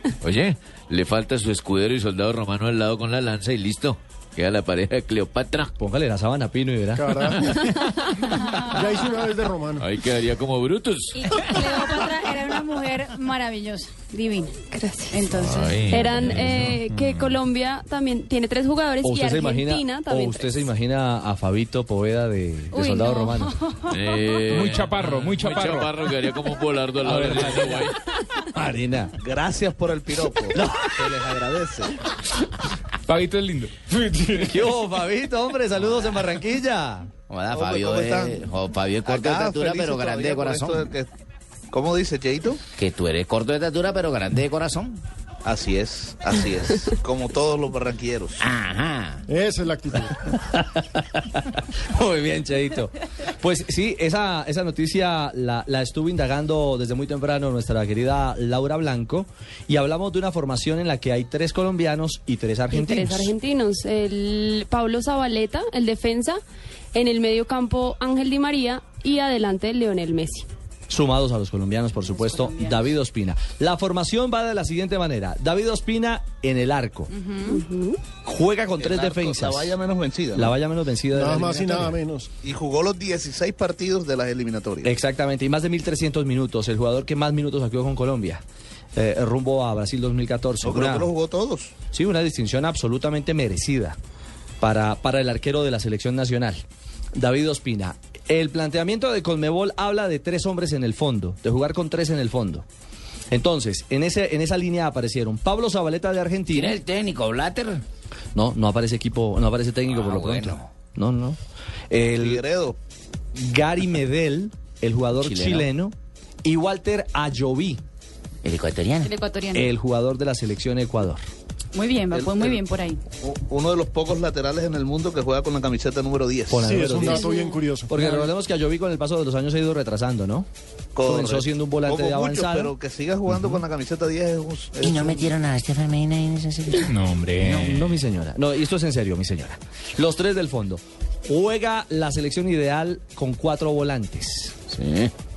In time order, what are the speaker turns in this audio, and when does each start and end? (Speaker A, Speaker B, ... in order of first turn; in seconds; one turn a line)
Speaker A: 0.2-5.6
Speaker B: 1.3-1.8
Speaker B: 4.8-5.5
Speaker C: 5.8-7.3
Speaker D: 7.0-9.9
Speaker A: 9.8-11.3
Speaker E: 11.1-15.9
Speaker F: 14.7-15.2
Speaker A: 15.3-16.7
Speaker F: 15.9-20.6
Speaker G: 16.0-17.4
Speaker C: 19.0-23.6
Speaker E: 22.7-24.2
Speaker A: 23.9-27.9
Speaker G: 24.5-26.0
Speaker C: 27.0-29.1
Speaker H: 29.2-32.0
Speaker C: 30.5-31.2
Speaker G: 33.0-34.8
Speaker C: 34.4-37.1
Speaker B: 37.3-40.9
Speaker H: 37.5-41.1
Speaker H: 41.7-42.6
Speaker B: 42.8-45.0
Speaker H: 45.4-48.4
Speaker B: 48.4-49.2
Speaker D: 49.3-50.2
Speaker C: 50.3-63.3
Speaker F: 62.7-66.4
Speaker F: 66.9-70.5
Speaker C: 70.9-77.1
Speaker E: 71.9-72.9
Speaker E: 77.1-77.6
Speaker F: 77.5-78.0
Speaker C: 78.2-79.7
Speaker H: 78.8-80.6
Speaker C: 80.3-82.0
Speaker D: 81.1-82.3
Speaker H: 82.4-84.9
Speaker C: 84.8-88.4
Speaker C: 88.9-91.1
Speaker H: 90.6-91.7
Speaker C: 91.9-94.0
Speaker C: 94.6-96.6
Speaker C: 97.1-102.7
Speaker C: 103.3-106.8
Speaker B: 106.5-107.8
Speaker C: 108.3-111.4
Speaker B: 109.9-110.7
Speaker C: 111.9-112.4
Speaker H: 112.2-112.8
Speaker C: 113.3-117.8
Speaker B: 115.1-115.7
Speaker B: 118.4-119.1
Speaker E: 119.0-119.7
Speaker C: 119.5-121.2
Speaker E: 121.7-123.0
Speaker H: 122.1-126.7
Speaker C: 126.5-127.3
Speaker D: 126.6-127.9
Speaker C: 127.9-130.5
Speaker H: 130.9-135.3
Speaker C: 131.0-132.7
Speaker B: 134.8-136.9
Speaker G: 136.8-138.0
Speaker C: 137.4-144.6
Speaker B: 144.7-145.1